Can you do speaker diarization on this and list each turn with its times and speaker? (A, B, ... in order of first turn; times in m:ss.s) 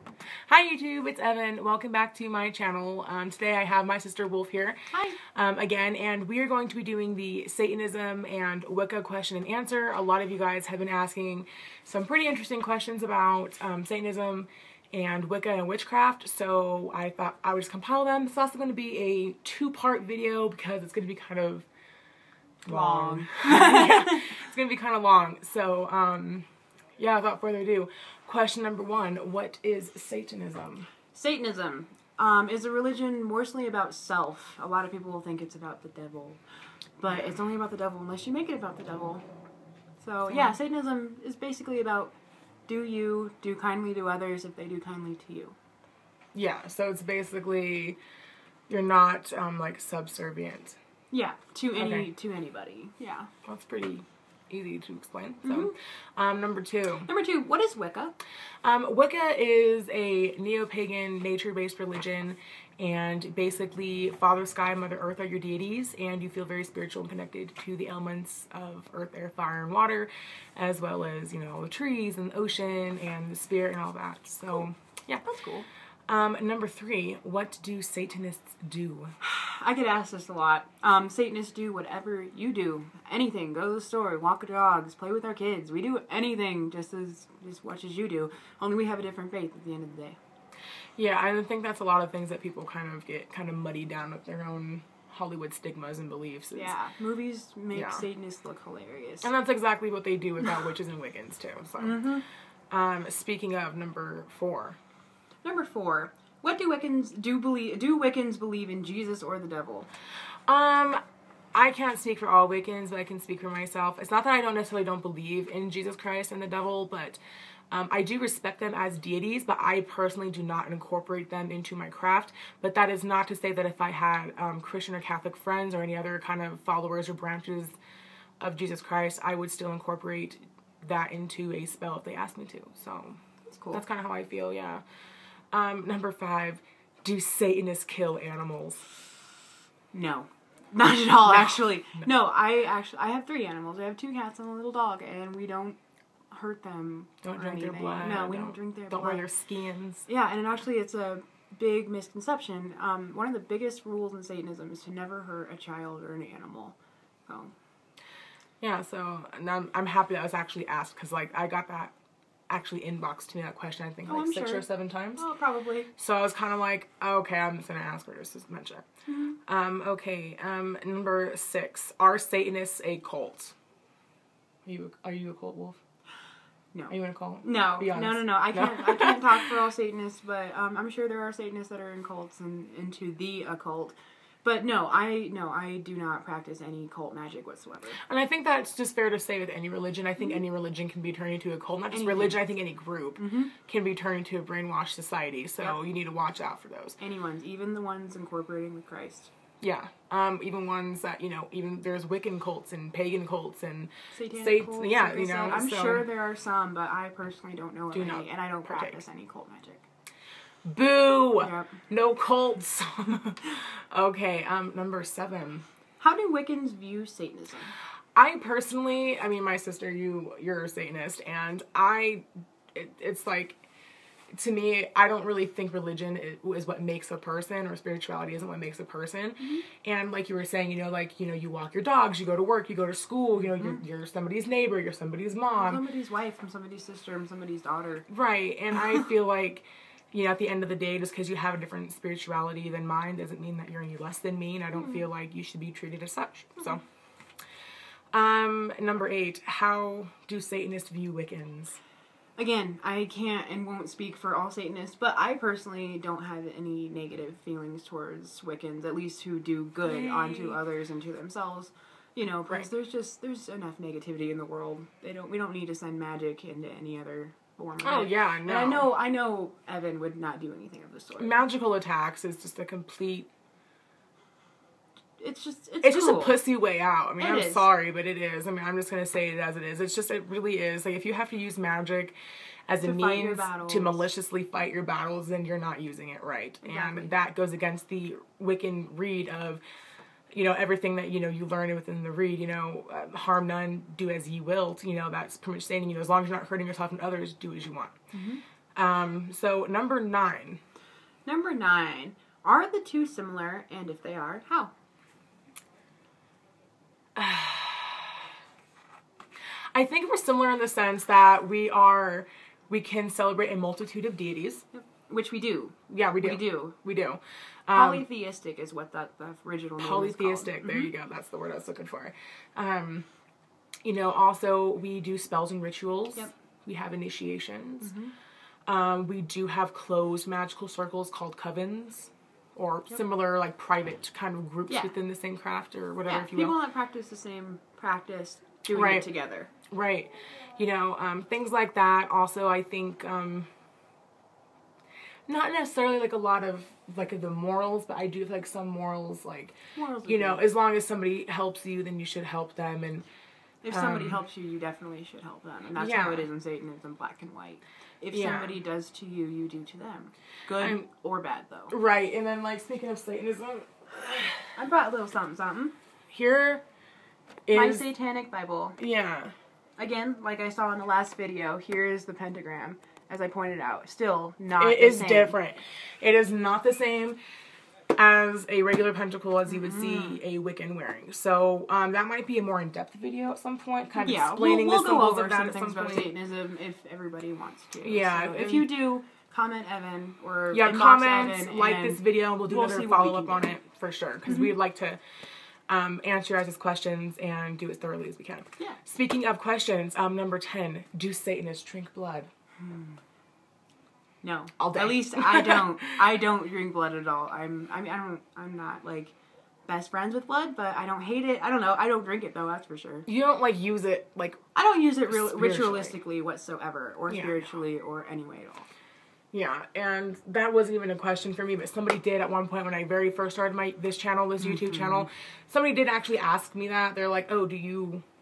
0:00.5-0:21.6 A
0:04.9-0:05.2 B
0:22.6-0:24.3 B
0:22.6-0:26.4 A
0:27.0-0:30.9 A
0:31.1-0:36.4 B
0:37.0-0:39.2 B
0:40.0-0:42.1 B
0:40.3-0:40.5 A
0:42.7-0:45.6 B
0:46.3-0:48.0 A
0:48.7-0:50.8 A
0:51.1-0:53.3 B
0:51.8-0:52.1 A
0:53.4-0:57.1 A
0:55.4-0:55.7 B
0:57.1-0:58.2 B
0:58.6-1:15.2 A
1:15.2-1:15.7 B
1:16.1-1:19.1 A
1:19.2-1:30.2 B
1:31.0-1:36.8 A
1:36.5-1:39.3 B
1:37.7-1:38.0 A
1:39.2-1:42.1 A
1:41.8-1:42.2 B
1:42.7-1:44.8 A
1:45.4-1:49.9 B
1:50.5-1:51.0 A
1:51.5-1:57.2 A
1:57.7-2:07.8 A
2:08.4-2:13.2 A
2:13.5-2:13.8 B
2:13.7-2:14.8 A
2:15.5-2:18.9 A
2:19.9-2:25.8 B
2:26.3-2:29.3 B
2:27.2-2:30.1 A
2:30.1-2:36.8 B
2:37.3-2:37.5 B
2:38.6-2:41.9 A
2:42.5-2:45.2 A
2:44.0-2:45.9 B
2:46.0-2:48.9 A
2:49.1-2:49.4 B
2:49.4-2:53.5 A
2:54.6-2:55.8 A
2:56.9-2:59.5 A
2:57.4-3:08.0 B
3:08.0-3:17.0 A
3:11.9-3:12.4 B
3:13.2-3:13.5 B
3:17.0-3:19.3 B
3:19.6-3:26.1 A
3:24.1-3:29.8 B
3:27.9-3:29.0 A
3:30.6-3:35.6 A
3:31.4-3:31.7 B
3:36.0-3:37.7 B
3:38.2-3:43.6 A
3:44.3-3:55.8 A
3:55.6-3:58.1 B
3:58.1-4:06.8 A
4:08.1-4:11.8 A
4:12.4-4:31.4 B
4:19.8-4:20.6 A
4:27.8-4:28.9 A
4:31.2-4:33.3 A
4:35.2-4:36.4 B
4:35.8-4:42.2 A
4:37.2-4:37.7 B
4:42.7-4:49.6 A
4:42.8-4:44.0 B
4:46.6-4:47.1 B
4:50.3-4:57.9 A
4:58.1-4:58.4 B
4:58.8-5:00.6 A
5:01.2-5:04.7 B
5:07.2-5:08.2 A
5:09.7-5:14.6 A
5:14.7-5:16.8 B
5:15.9-5:18.0 A
5:17.7-5:20.9 B
5:19.8-5:23.0 A
5:23.8-5:27.9 A
5:27.8-5:28.1 B
5:28.7-5:36.6 A
5:34.7-5:34.9 B
5:36.0-5:39.5 B
5:38.7-5:39.0 A
5:39.7-5:43.5 A
5:45.3-5:49.5 A
5:49.7-5:50.5 B
5:50.0-5:53.0 A
5:53.6-6:01.7 B
5:53.7-5:54.2 A
5:55.8-5:56.3 A
5:58.1-5:58.5 A
6:00.6-6:00.9 A
6:01.7-6:04.5 A
6:04.6-6:05.7 B
6:06.1-6:06.6 A
6:07.5-6:07.8 A
6:07.5-6:08.8 B
6:08.8-6:09.3 A
6:09.8-6:15.3 B
6:14.6-6:17.2 A
6:18.0-6:26.1 A
6:19.4-6:20.2 B
6:24.0-6:33.6 B
6:27.8-6:28.7 A
6:30.5-6:35.0 A
6:34.2-6:34.5 B
6:35.7-6:42.3 A
6:42.6-6:43.0 B
6:44.2-6:49.1 B
6:44.6-6:45.9 A
6:49.7-6:53.1 B
6:53.1-6:54.4 A
6:54.5-6:58.7 B
6:55.0-6:56.0 A
6:57.1-6:57.4 A
6:59.3-7:08.0 A
7:04.4-7:05.0 B